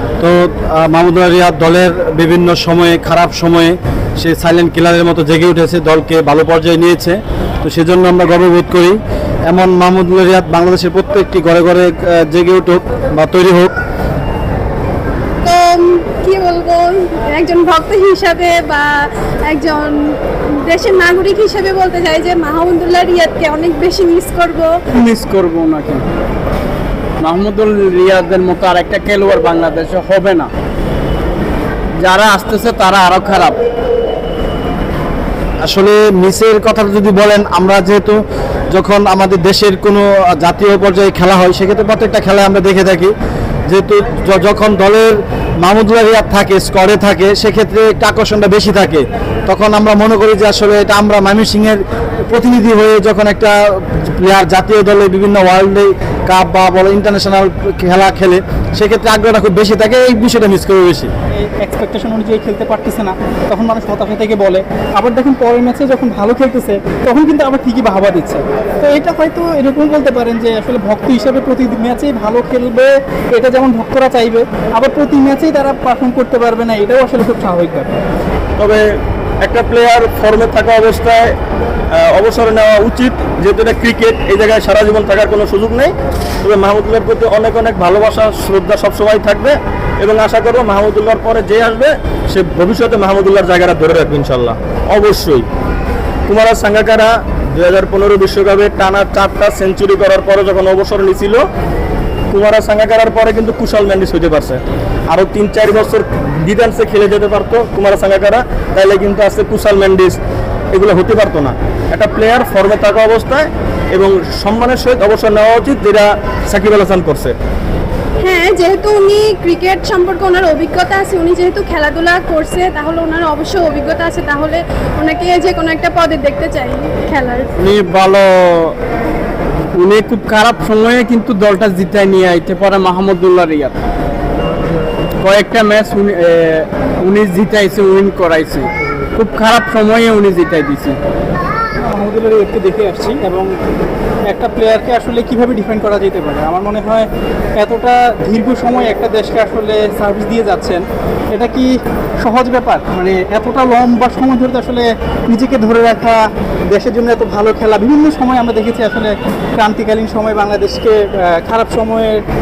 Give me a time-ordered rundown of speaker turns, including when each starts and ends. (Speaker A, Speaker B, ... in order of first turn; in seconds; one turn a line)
Speaker A: 0.2-13.7
Speaker B: 15.4-24.7
Speaker C: 24.9-26.0
Speaker C: 27.2-30.5
Speaker C: 32.0-33.6
Speaker A: 35.6-43.1
Speaker A: 43.7-61.1
Speaker D: 61.3-78.0
Speaker E: 79.4-81.3
Speaker E: 82.0-95.5
Speaker E: 96.3-101.4
Speaker E: 102.3-110.2
Speaker E: 110.7-117.3
Speaker B: 118.2-127.5
Speaker C: 127.6-128.8
Speaker C: 129.8-133.8
Speaker C: 135.2-141.0
Speaker D: 141.8-143.5
Speaker D: 144.3-162.2